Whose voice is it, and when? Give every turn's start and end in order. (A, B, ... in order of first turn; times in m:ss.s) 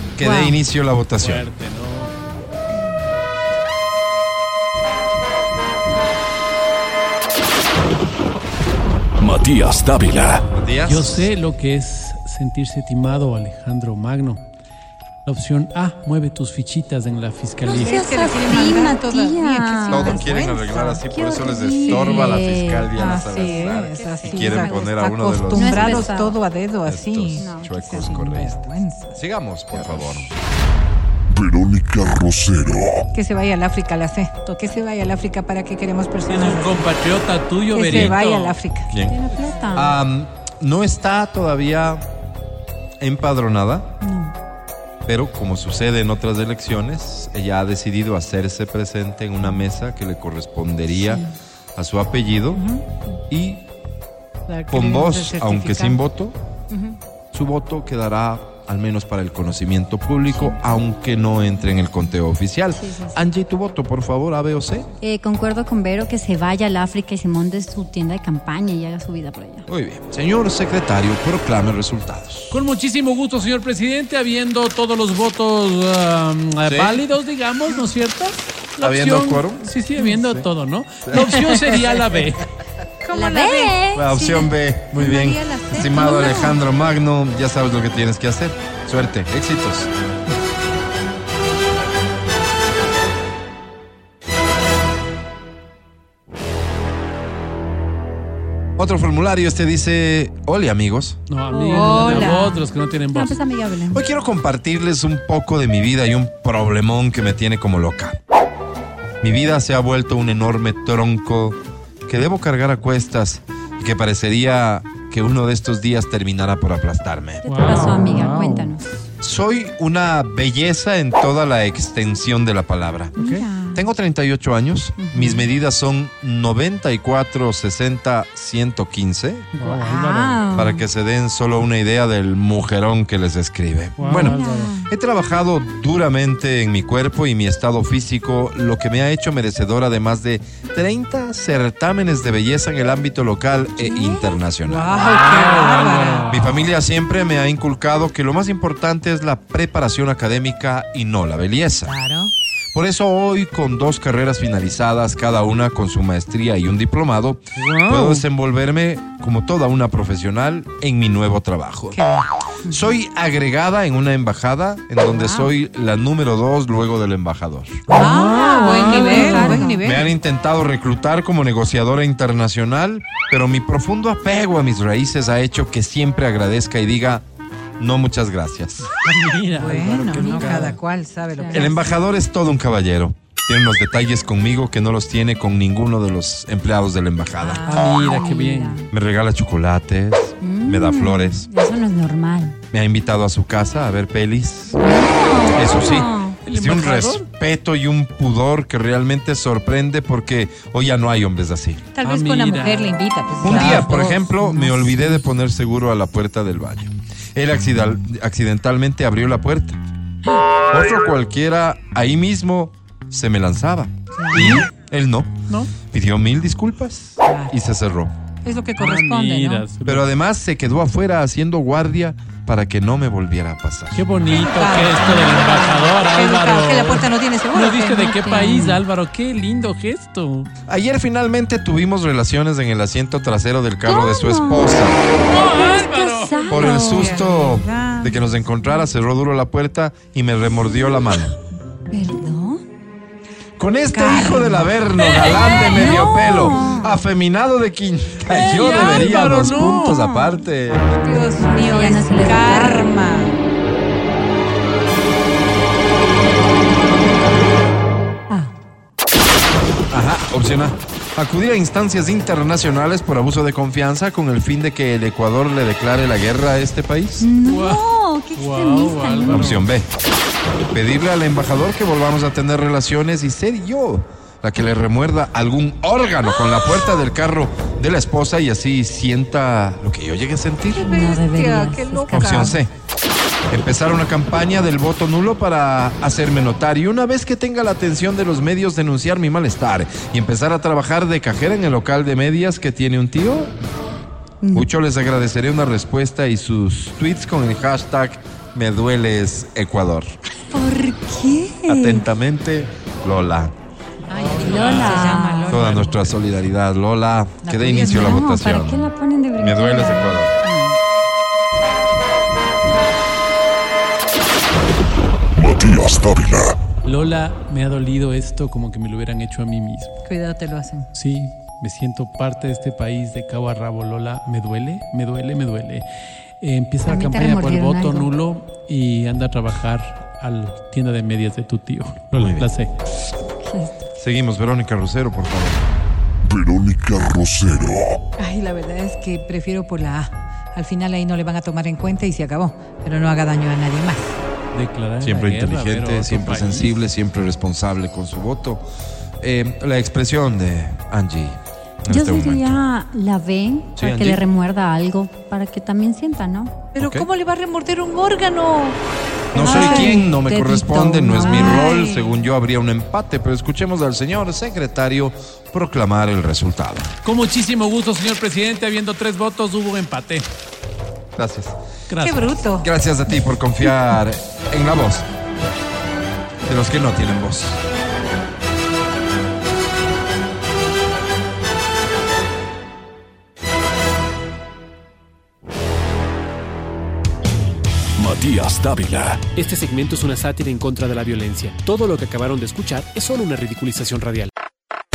0:00.2-0:01.5 A
0:00.2-0:00.6 B
0:01.1-0:02.1 C
0:09.2-0:10.4 D
0:09.4-0:10.1 C
0:10.5-0:11.3 A
0:10.8-0:14.4 C
0:15.2-0:17.9 C
0:17.7-0:24.9 B
0:17.7-0:20.8 E
0:19.9-0:26.1 A
0:21.8-0:22.4 E
0:22.9-0:29.2 E
0:25.5-0:26.4 B
0:26.8-0:28.6 A
0:27.4-0:28.1 B
0:29.2-0:30.3 A
0:31.3-0:33.0 F
0:33.1-0:36.9 E
0:36.3-0:38.6 C
0:37.7-0:38.9 E
0:37.9-0:38.2 A
0:38.9-0:39.2 A
0:38.9-0:40.0 B
0:39.7-0:42.1 A
0:43.0-0:43.9 A
0:44.0-0:44.3 B
0:45.1-0:51.2 A
0:51.0-0:51.2 B
0:51.8-0:52.6 A
0:52.6-0:52.8 E
0:53.3-0:53.6 A
0:54.5-0:56.0 E
0:54.7-0:56.4 A
0:57.3-1:04.9 A
1:00.3-1:00.6 B
1:02.7-1:03.2 B
1:05.0-1:09.7 B
1:09.7-1:12.6 A
1:12.5-1:22.5 C
1:16.6-1:17.0 A
1:18.8-1:19.7 A
1:21.1-1:21.5 A
1:23.0-1:23.8 E
1:23.1-1:24.4 B
1:23.9-1:29.9 A
1:24.9-1:26.5 E
1:26.0-1:26.5 B
1:38.8-1:41.2 A
1:41.3-1:43.4 C
1:41.5-1:42.6 B
1:41.7-1:42.6 E
1:43.1-1:44.0 B
1:43.9-1:48.2 A
1:49.2-1:57.5 A
1:57.5-1:58.7 C
1:57.5-1:59.0 B
1:59.2-2:03.2 A
2:03.2-2:03.4 C
2:03.2-2:03.8 B
2:03.7-2:09.5 A
2:05.0-2:05.5 B
2:09.5-2:10.4 C
2:09.6-2:10.9 B
2:09.7-2:10.1 E
2:10.5-2:24.9 A
2:14.0-2:14.7 C
2:14.1-2:14.9 B
2:23.8-2:24.4 B
2:24.6-2:26.3 E
2:24.9-2:26.6 C
2:26.3-2:31.9 A
2:31.9-2:32.3 E
2:32.7-2:42.0 A
2:37.6-2:38.2 C
2:41.9-2:42.7 E
2:42.7-2:47.8 A
2:47.9-2:49.5 C
2:47.9-2:50.1 E
2:48.2-2:49.9 B
2:49.8-2:57.2 A
2:57.8-2:58.9 A
2:58.9-3:00.8 C
2:59.5-3:01.9 E
3:00.1-3:00.6 B
3:01.4-3:01.8 B
3:01.5-3:07.8 A
3:07.4-3:07.9 E
3:07.6-3:08.9 C
3:08.0-3:08.9 B
3:08.9-3:11.5 A
3:10.4-3:12.6 B
3:12.7-3:14.8 A
3:14.8-3:16.4 B
3:15.5-3:21.9 A
3:16.5-3:17.2 C
3:22.0-3:25.1 E
3:22.0-3:24.0 C
3:23.4-3:29.8 A
3:30.7-3:35.3 A
3:34.2-3:34.6 E
3:34.3-3:34.7 C
3:35.9-3:38.1 A
3:37.2-3:37.5 E
3:38.4-3:39.6 E
3:38.8-3:40.1 C
3:39.9-3:44.1 A
3:43.9-3:50.5 C
3:44.2-3:48.1 E
3:48.0-3:48.8 B
3:50.7-3:55.0 A
3:53.8-3:54.8 B
3:55.2-3:56.7 C
3:55.4-3:57.3 B
3:56.5-4:01.3 A
3:56.7-3:58.2 E
4:01.9-4:02.6 B
4:03.6-4:10.8 A
4:03.9-4:05.6 E
4:05.0-4:05.9 C
4:05.2-4:07.0 B
4:08.3-4:10.0 C
4:08.7-4:09.1 B
4:09.9-4:10.4 B
4:10.9-4:13.4 E
4:11.4-4:12.9 B
4:19.9-4:27.3 A
4:27.2-4:29.6 B
4:27.4-4:29.6 C
4:29.3-4:29.9 A
4:30.7-4:40.8 A
4:40.7-4:42.6 E
4:40.8-4:42.6 B
4:42.1-4:42.7 A
4:43.5-4:53.5 A
4:54.4-4:54.7 B
4:54.5-5:00.1 A
5:00.5-5:02.1 B
5:01.7-5:03.5 A
5:04.1-5:06.1 E
5:04.1-5:05.1 C
5:04.4-5:05.6 B
5:05.5-5:10.3 A
5:07.4-5:08.2 E
5:07.8-5:10.8 B
5:15.4-5:16.6 F
5:16.8-5:19.9 C
5:20.1-5:20.9 E
5:20.9-5:25.8 C
5:26.4-5:32.7 C
5:26.9-5:28.1 B
5:32.2-5:32.5 A
5:33.4-5:33.8 B
5:34.0-5:35.6 A
5:36.2-5:38.0 F
5:38.2-5:44.2 E
5:44.5-5:46.7 C
5:45.0-5:48.6 A
5:49.2-5:52.6 A
5:51.9-5:56.6 B
5:53.8-5:54.2 A
5:56.8-5:58.8 E
5:56.8-5:57.1 A
5:59.3-6:06.9 A
5:59.4-6:00.3 E
5:59.4-6:01.7 B
6:01.1-6:02.1 E
6:07.0-6:10.3 C
6:11.2-6:11.6 A
6:11.9-6:12.4 C
6:12.0-6:12.7 E
6:12.6-6:15.0 A
6:16.4-6:17.6 A
6:28.0-6:29.3 D
6:29.3-6:34.3 G